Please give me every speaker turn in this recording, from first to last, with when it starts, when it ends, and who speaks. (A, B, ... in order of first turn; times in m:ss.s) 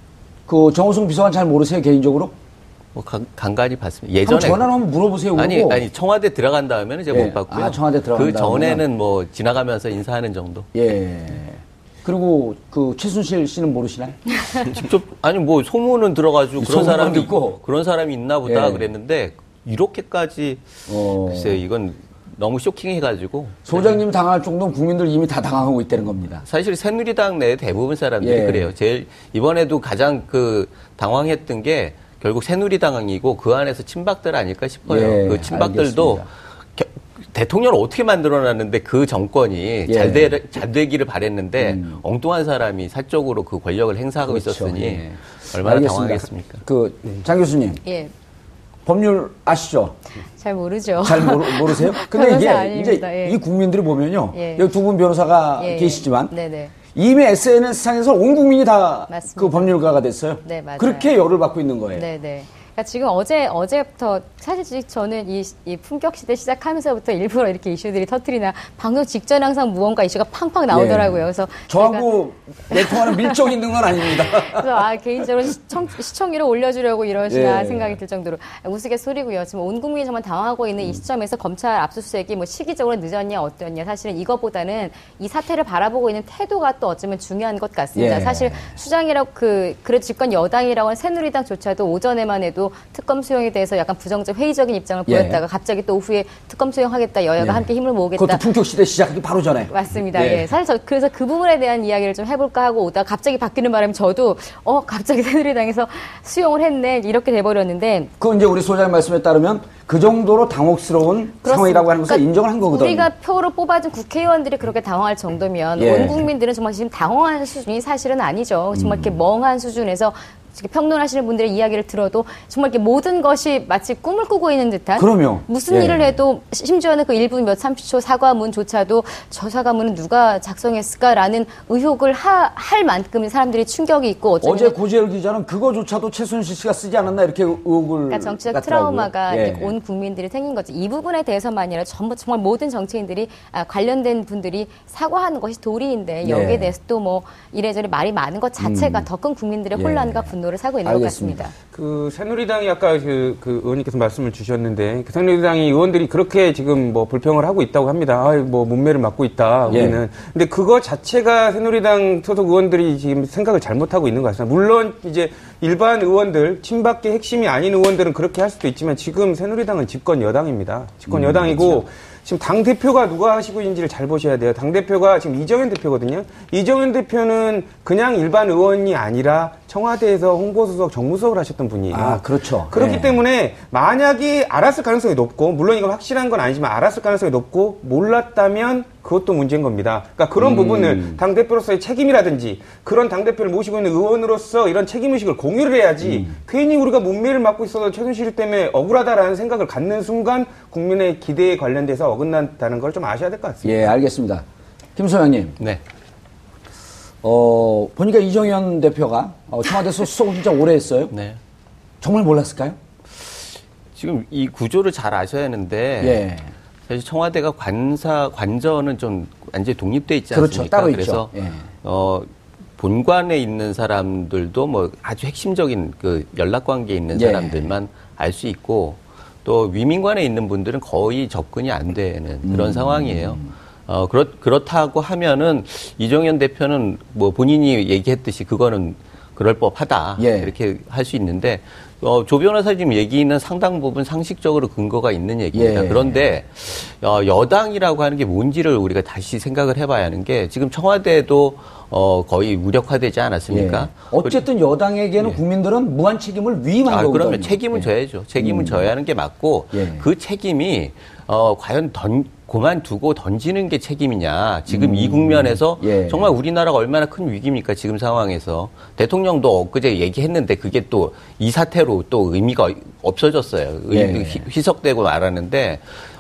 0:00.5-0:02.3 A
0:03.0-0:04.8 B
0:04.2-0:05.9 A
0:05.3-0:10.7 B
0:07.1-0:08.8 A
0:10.8-0:14.3 A
0:14.6-0:24.0 B
0:16.6-0:17.6 A
0:18.5-0:18.9 A
0:20.9-0:21.6 A
0:23.6-0:26.4 A
0:26.4-0:46.6 B
0:28.2-0:28.7 A
0:34.9-0:36.3 A
0:39.9-0:40.4 A
0:41.6-0:42.0 A
0:44.3-0:47.8 A
0:47.8-0:48.1 C
0:48.9-0:50.0 A
0:50.4-0:53.4 C
0:51.0-0:56.3 A
0:54.3-0:54.7 C
0:55.6-0:56.7 C
0:56.9-1:02.0 A
0:59.1-0:59.8 C
1:00.4-1:01.1 C
1:01.9-1:12.1 C
1:10.7-1:14.8 A
1:12.7-1:13.5 C
1:14.0-1:38.4 C
1:17.3-1:18.0 A
1:28.0-1:28.8 A
1:35.1-1:35.4 A
1:37.4-1:40.5 A
1:39.7-1:48.1 C
1:48.2-1:53.1 A
1:51.5-2:14.8 C
1:55.8-1:56.3 A
1:58.7-1:59.2 A
2:05.0-2:06.2 A
2:14.4-2:19.7 A
2:18.1-2:31.6 C
2:26.2-2:26.7 A
2:28.6-2:29.1 A
2:29.7-2:30.3 A
2:30.8-2:31.4 A
2:31.7-3:23.8 D
2:39.7-2:40.0 A
2:51.1-2:51.8 A
3:01.9-3:03.2 A
3:10.4-3:11.2 A
3:16.0-3:16.3 A
3:23.6-3:24.4 A
3:25.0-3:25.6 A
3:27.2-3:31.1 A
3:31.1-3:31.4 B
3:32.0-3:32.8 A
3:33.2-3:36.2 B
3:36.0-3:36.5 A
3:36.9-4:14.4 B
3:40.3-3:41.7 A
3:47.1-3:47.7 A
3:52.4-3:53.5 A
4:00.2-4:00.5 A
4:05.5-4:06.3 A
4:13.5-4:18.9 A
4:16.9-4:35.8 B
4:19.7-4:20.1 A
4:24.7-4:26.3 A
4:33.9-4:34.4 A